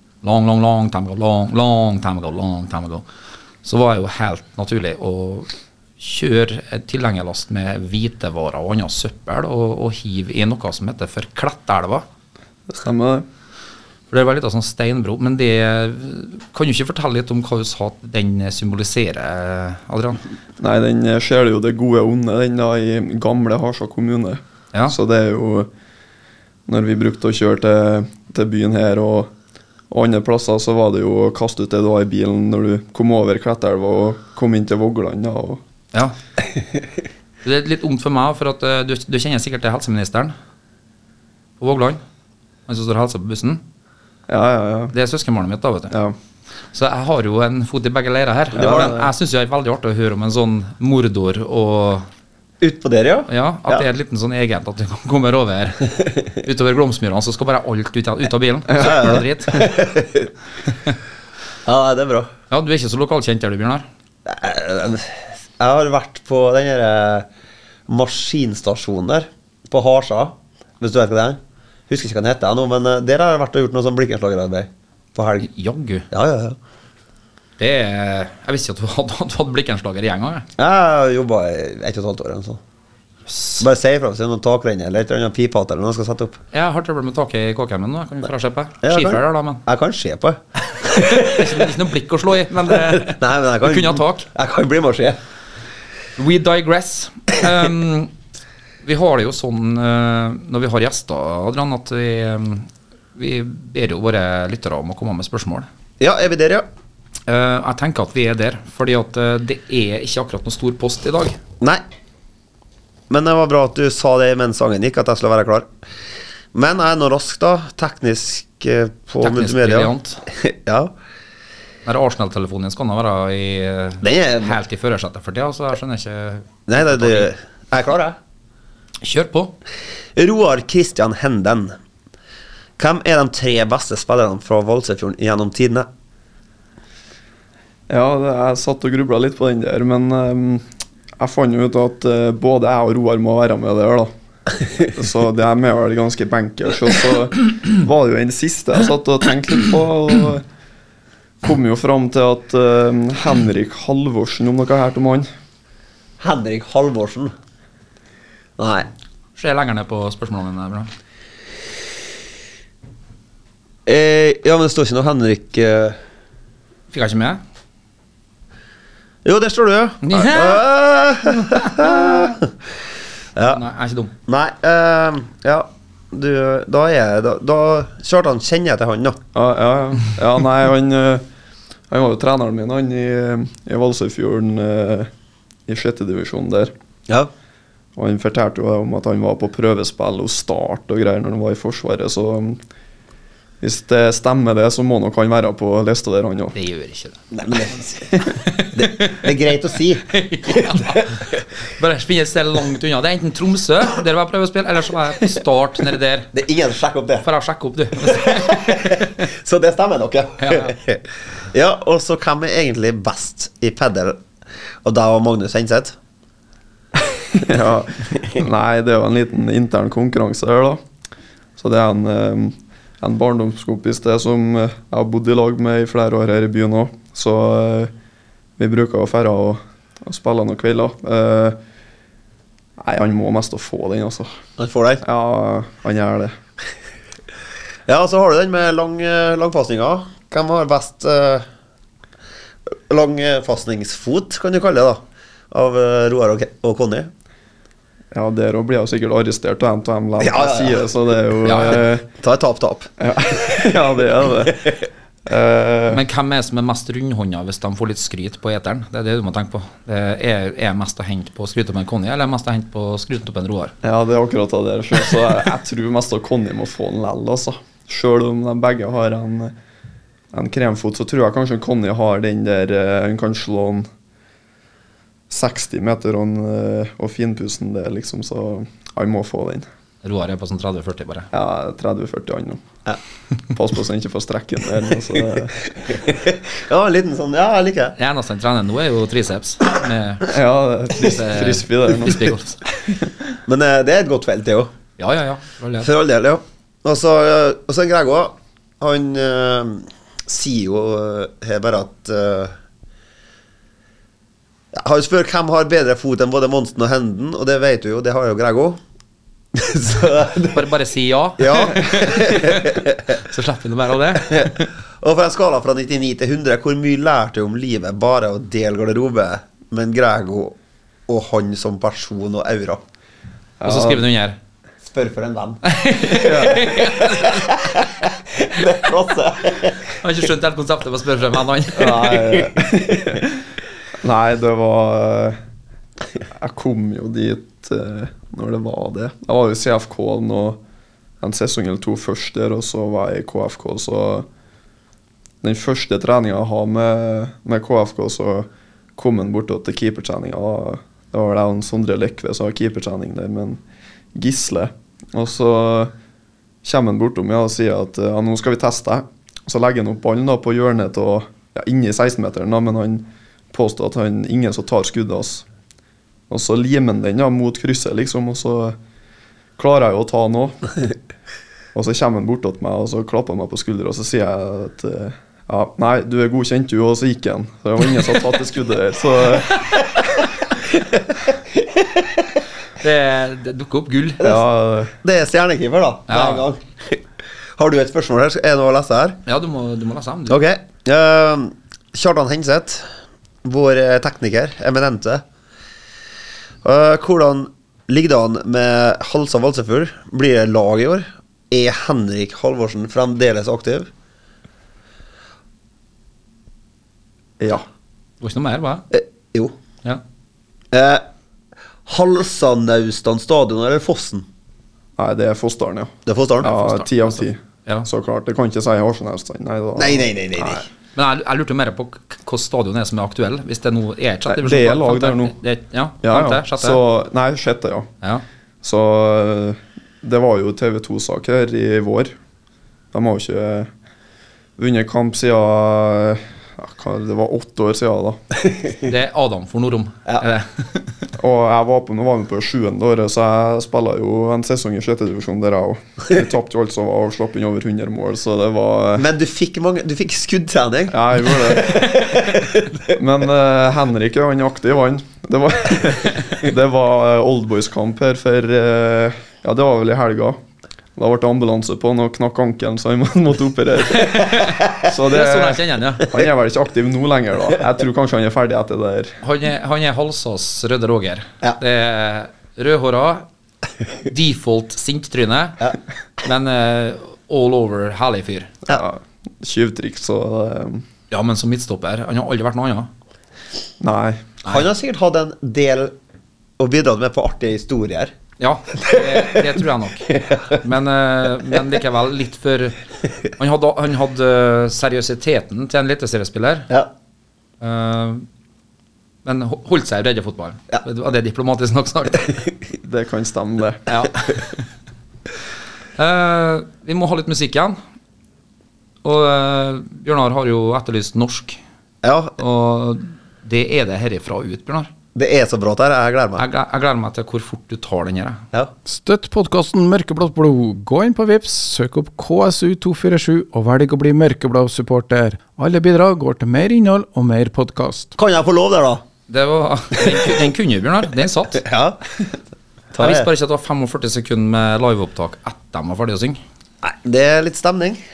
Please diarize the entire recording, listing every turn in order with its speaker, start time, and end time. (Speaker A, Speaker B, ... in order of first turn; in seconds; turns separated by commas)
Speaker A: 0.2-3.0, Speaker A: 3.6-12.1, Speaker B: 12.7-13.2, Speaker A: 14.1-20.2, Speaker B: 20.6-25.7, Speaker B: 26.7-29.3, Speaker B: 29.9-35.6, Speaker A: 37.4-40.3, Speaker A: 41.6-42.0, Speaker A: 42.7-43.6, Speaker B: 44.3-44.9, Speaker A: 44.9-46.0, Speaker A: 46.7-52.1, Speaker C: 48.5-49.0, Speaker B: 48.6-49.1, Speaker C: 52.6-53.8, Speaker A: 53.3-59.7, Speaker C: 58.8-60.3, Speaker C: 61.6-62.3, Speaker A: 62.5-63.9, Speaker C: 64.3-67.3, Speaker C: 67.9-75.5, Speaker A: 75.4-76.1, Speaker C: 76.1-76.6, Speaker A: 77.6-80.5, Speaker C: 80.6-82.6, Speaker A: 83.3-83.7, Speaker C: 83.6-86.4, Speaker A: 86.5-89.6, Speaker C: 88.8-91.7, Speaker A: 90.9-94.3, Speaker C: 92.9-95.2, Speaker A: 96.2-98.1, Speaker A: 98.8-105.7, Speaker C: 106.0-106.7, Speaker A: 107.3-111.4, Speaker C: 113.1-115.7, Speaker C: 116.5-120.9, Speaker A: 119.2-120.2, Speaker A: 121.9-127.3, Speaker C: 124.0-124.6, Speaker C: 126.7-128.2, Speaker A: 129.0-129.5, Speaker C: 130.2-131.8, Speaker C: 132.8-135.9, Speaker B: 137.9-140.7, Speaker B: 141.2-144.1, Speaker B: 144.8-150.4, Speaker B: 151.4-155.3, Speaker C: 156.2-157.3, Speaker C: 158.6-158.9, Speaker A: 159.4-160.9, Speaker C: 163.9-166.0, Speaker A: 166.9-167.4, Speaker C: 169.2-172.5, Speaker A: 170.0-170.6, Speaker A: 171.4-172.1, Speaker A: 173.5-174.1, Speaker C: 174.3-179.2, Speaker B: 179.3-181.2, Speaker B: 181.9-185.1, Speaker B: 185.7-186.7, Speaker B: 188.0-192.6, Speaker B: 193.6-196.6, Speaker A: 196.6-197.2, Speaker C: 197.3-198.2, Speaker A: 198.2-199.3, Speaker C: 198.7-201.1, Speaker A: 200.1-206.3, Speaker C: 206.3-207.3, Speaker A: 207.2-209.3, Speaker C: 208.0-214.2, Speaker A: 210.4-210.8, Speaker C: 214.8-216.0, Speaker B: 217.3-220.8, Speaker B: 221.6-227.9, Speaker B: 228.6-231.6, Speaker B: 232.8-234.3, Speaker C: 234.6-235.0, Speaker B: 235.0-236.4, Speaker C: 237.9-241.5, Speaker C: 242.7-247.1, Speaker B: 248.1-252.1, Speaker C: 250.2-250.8, Speaker A: 251.4-251.8, Speaker C: 252.2-253.9, Speaker B: 253.0-256.0, Speaker C: 254.5-254.8, Speaker A: 255.9-263.7, Speaker B: 263.8-269.5, Speaker B: 270.3-273.9, Speaker B: 275.3-279.7, Speaker A: 280.0-281.3, Speaker B: 281.3-282.7, Speaker B: 283.5-286.0, Speaker C: 285.9-288.0, Speaker A: 288.0-290.3, Speaker B: 290.3-292.3, Speaker A: 290.9-292.6, Speaker B: 292.9-293.3, Speaker C: 293.5-294.7, Speaker A: 295.0-295.9, Speaker C: 295.8-302.5, Speaker C: 304.7-308.8, Speaker C: 309.5-310.7, Speaker A: 310.5-314.5, Speaker C: 311.4-313.2, Speaker C: 314.2-320.6, Speaker C: 321.1-322.8, Speaker B: 323.6-324.0, Speaker A: 323.6-324.4, Speaker C: 324.8-329.9, Speaker A: 325.6-327.8, Speaker B: 326.2-326.7, Speaker A: 329.9-332.2, Speaker B: 331.8-333.4, Speaker C: 332.1-333.1, Speaker B: 334.0-335.4, Speaker B: 336.3-340.6, Speaker B: 341.2-344.3, Speaker B: 345.4-353.6, Speaker B: 354.1-355.9, Speaker B: 356.6-365.5, Speaker B: 366.3-368.8, Speaker B: 369.6-370.8, Speaker B: 371.7-379.7, Speaker C: 380.7-382.3, Speaker A: 382.8-384.2, Speaker B: 384.2-384.9, Speaker C: 385.0-387.0, Speaker A: 386.1-386.5, Speaker C: 387.6-389.2, Speaker A: 389.3-390.4, Speaker C: 390.3-392.9, Speaker C: 393.4-395.2, Speaker C: 396.6-403.9, Speaker B: 407.4-407.6, Speaker A: 408.2-408.9, Speaker C: 408.9-409.6, Speaker C: 410.7-411.0, Speaker C: 411.9-414.3, Speaker B: 415.0-420.7, Speaker C: 416.1-416.5, Speaker A: 416.5-417.9, Speaker C: 419.8-420.6, Speaker A: 420.9-426.8, Speaker B: 424.3-425.4, Speaker B: 426.0-427.9, Speaker B: 428.6-432.1, Speaker B: 432.9-433.7, Speaker B: 434.6-438.2, Speaker C: 438.5-438.8, Speaker A: 438.8-440.9, Speaker B: 441.2-449.1, Speaker C: 449.0-453.0, Speaker B: 450.9-451.9, Speaker B: 452.9-460.4, Speaker B: 461.0-469.2, Speaker A: 463.9-466.1, Speaker A: 469.2-473.3, Speaker A: 474.1-475.6, Speaker A: 476.2-478.5, Speaker B: 478.7-480.9, Speaker A: 481.1-482.9, Speaker B: 483.8-484.3, Speaker C: 484.5-485.9, Speaker C: 486.6-488.1, Speaker A: 488.4-492.8, Speaker C: 488.8-490.6, Speaker A: 493.4-496.7, Speaker A: 497.6-498.3, Speaker A: 499.2-502.4, Speaker B: 502.8-503.8, Speaker A: 503.9-504.5, Speaker A: 506.0-507.8, Speaker A: 509.0-511.6, Speaker C: 512.0-512.4, Speaker A: 512.4-514.9, Speaker C: 515.1-516.4, Speaker A: 516.4-518.4, Speaker D: 518.9-528.1, Speaker C: 528.2-529.0, Speaker A: 529.3-531.6, Speaker C: 531.6-532.3, Speaker C: 532.9-533.3, Speaker A: 533.0-536.4, Speaker C: 536.8-538.0